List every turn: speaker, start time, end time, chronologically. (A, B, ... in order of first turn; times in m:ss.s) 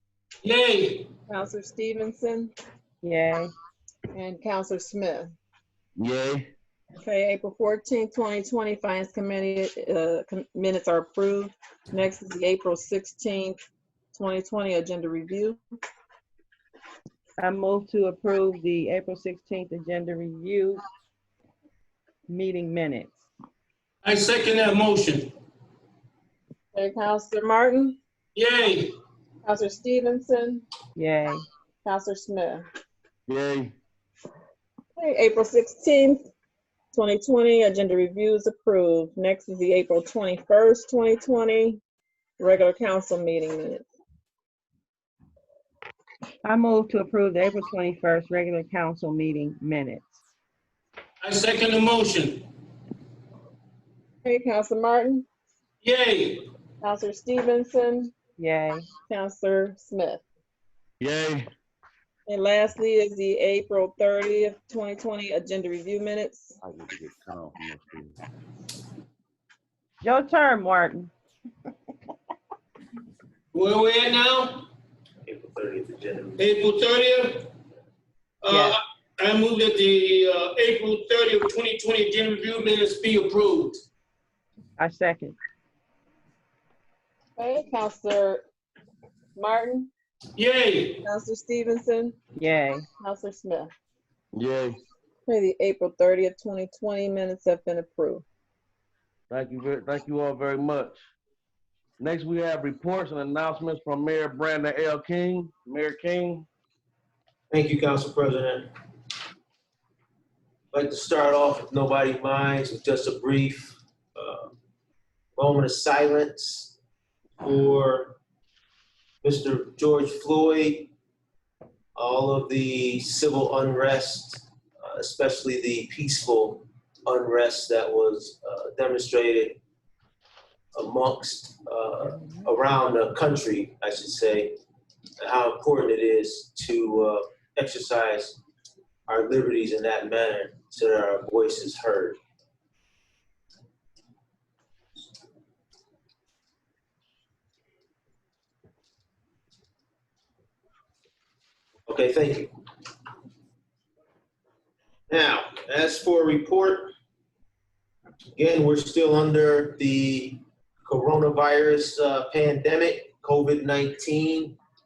0:00.4-0:01.1 A
0:01.3-0:02.5 B
0:03.0-0:03.5 C
0:04.1-0:05.4 B
0:06.0-0:06.5 D
0:07.0-0:13.6 B
0:14.1-0:15.6 B
0:17.4-0:20.8 C
0:22.3-0:23.1 C
0:24.0-0:25.3 A
0:26.7-0:28.0 B
0:28.4-0:28.9 A
0:29.4-0:30.6 B
0:31.0-0:31.4 C
0:31.8-0:32.7 B
0:33.3-0:33.7 D
0:35.0-0:36.2 B
0:36.9-0:41.8 B
0:42.4-0:43.9 B
0:46.4-0:50.1 C
0:51.2-0:52.4 A
0:54.2-0:55.3 B
0:55.8-0:56.4 A
0:56.8-0:58.1 B
0:58.4-0:58.9 C
0:59.1-1:00.2 B
1:01.0-1:01.5 D
1:02.3-1:06.6 B
1:06.6-1:08.2 D
1:10.0-1:11.1 C
1:13.5-1:14.7 A
1:15.3-1:16.4 E
1:16.4-1:17.5 A
1:18.4-1:23.8 A
1:18.5-1:18.8 C
1:24.8-1:25.4 C
1:27.4-1:28.4 B
1:29.4-1:29.9 B
1:30.4-1:31.0 A
1:31.0-1:32.2 B
1:32.4-1:32.9 C
1:33.0-1:33.7 B
1:34.3-1:34.7 D
1:35.3-1:38.2 B
1:39.3-1:41.0 D
1:42.0-1:46.5 D
1:47.5-1:48.7 E
1:50.7-1:54.5 E
1:55.4-1:56.8 E
1:57.4-1:58.2 E
1:59.2-2:00.9 E
2:02.0-2:09.6 E
2:10.8-2:14.6 E
2:12.0-2:12.5 C
2:15.2-2:18.4 E
2:19.1-2:22.2 E
2:31.9-2:32.5 E
2:35.1-2:36.9 E
2:38.4-2:44.6 E